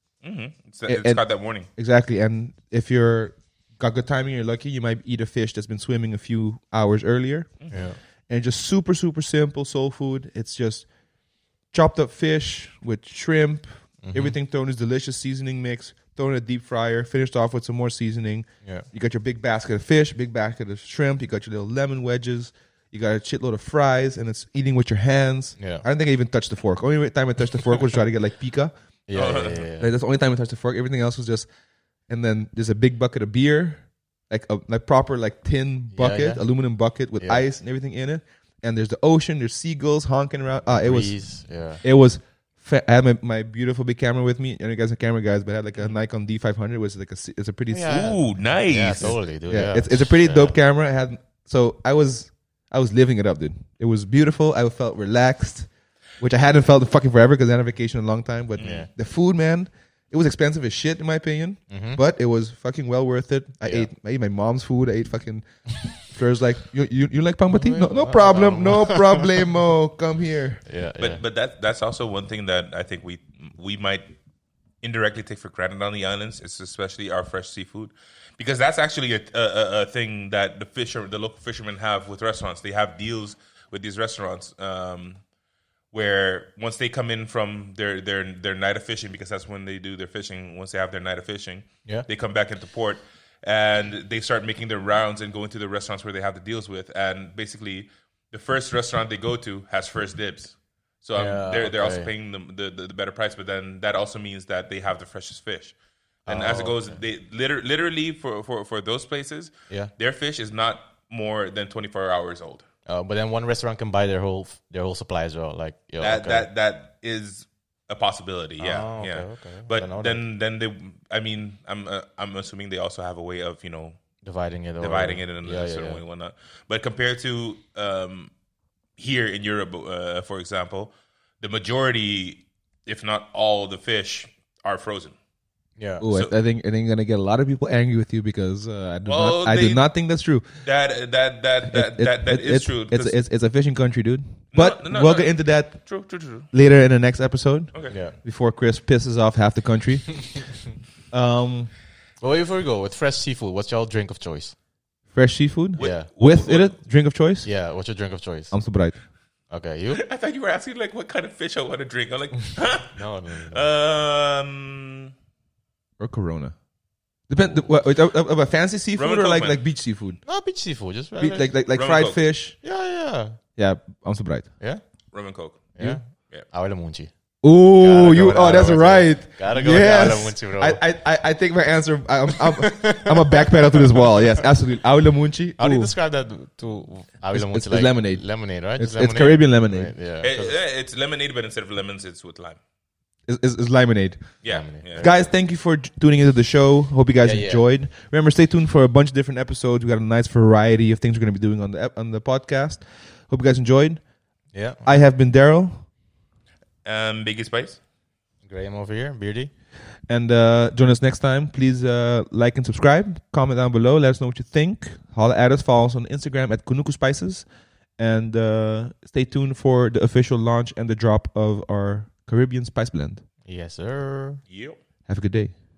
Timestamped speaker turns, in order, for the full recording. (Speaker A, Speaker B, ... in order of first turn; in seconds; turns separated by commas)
Speaker A: 0.2-1.7, Speaker B: 0.9-7.5, Speaker C: 7.7-8.0, Speaker B: 8.3-10.9, Speaker B: 11.7-28.7, Speaker C: 14.0-14.3, Speaker C: 25.6-25.8, Speaker C: 29.1-29.9, Speaker A: 29.1-29.7, Speaker B: 29.8-31.5, Speaker B: 32.1-41.1, Speaker C: 35.9-36.4, Speaker C: 37.2-37.4, Speaker C: 40.7-41.8, Speaker B: 41.8-48.2, Speaker C: 47.7-50.5, Speaker A: 47.9-49.2, Speaker B: 49.0-65.4, Speaker A: 58.6-58.9, Speaker C: 58.6-58.9, Speaker C: 61.7-62.0, Speaker B: 66.0-70.6, Speaker C: 67.5-69.5, Speaker C: 70.7-71.2, Speaker A: 71.0-74.1, Speaker A: 74.8-85.2, Speaker A: 85.9-105.7, Speaker C: 101.2-102.1, Speaker C: 106.2-107.0, Speaker A: 106.3-112.6, Speaker C: 112.8-116.5, Speaker A: 116.0-124.0, Speaker C: 118.6-120.2, Speaker C: 124.2-126.0, Speaker A: 124.8-128.3, Speaker A: 129.0-135.2, Speaker C: 135.8-136.0, Speaker B: 136.0-140.5, Speaker A: 139.1-139.8, Speaker A: 140.6-143.2, Speaker B: 141.7-145.8, Speaker A: 144.5-146.5, Speaker B: 146.5-150.5, Speaker C: 147.9-148.2, Speaker B: 151.1-151.7, Speaker C: 152.2-154.5, Speaker B: 155.1-157.5, Speaker A: 155.8-156.7, Speaker C: 155.8-156.1, Speaker C: 157.4-158.5, Speaker B: 158.5-158.9, Speaker C: 159.5-160.0, Speaker A: 159.9-165.1, Speaker C: 162.9-163.6, Speaker B: 166.0-166.5, Speaker B: 167.3-170.2, Speaker A: 169.0-169.6, Speaker C: 170.2-171.5, Speaker B: 171.2-172.6, Speaker A: 171.7-172.2, Speaker C: 172.6-173.4, Speaker B: 173.6-174.5, Speaker A: 175.1-175.7, Speaker C: 175.8-177.1, Speaker B: 177.4-185.9, Speaker C: 177.8-180.8, Speaker C: 182.3-184.4, Speaker C: 185.6-190.6, Speaker B: 187.3-188.2, Speaker B: 188.7-189.9, Speaker A: 190.2-192.6, Speaker B: 193.3-194.3, Speaker A: 194.4-195.1, Speaker C: 194.4-195.3, Speaker B: 195.0-204.0, Speaker C: 197.2-197.6, Speaker C: 204.5-204.9, Speaker B: 204.8-205.8, Speaker A: 206.8-207.8, Speaker C: 208.4-209.5, Speaker B: 210.1-217.4, Speaker B: 218.0-223.2, Speaker C: 223.4-224.4, Speaker A: 224.5-224.8, Speaker B: 225.1-225.5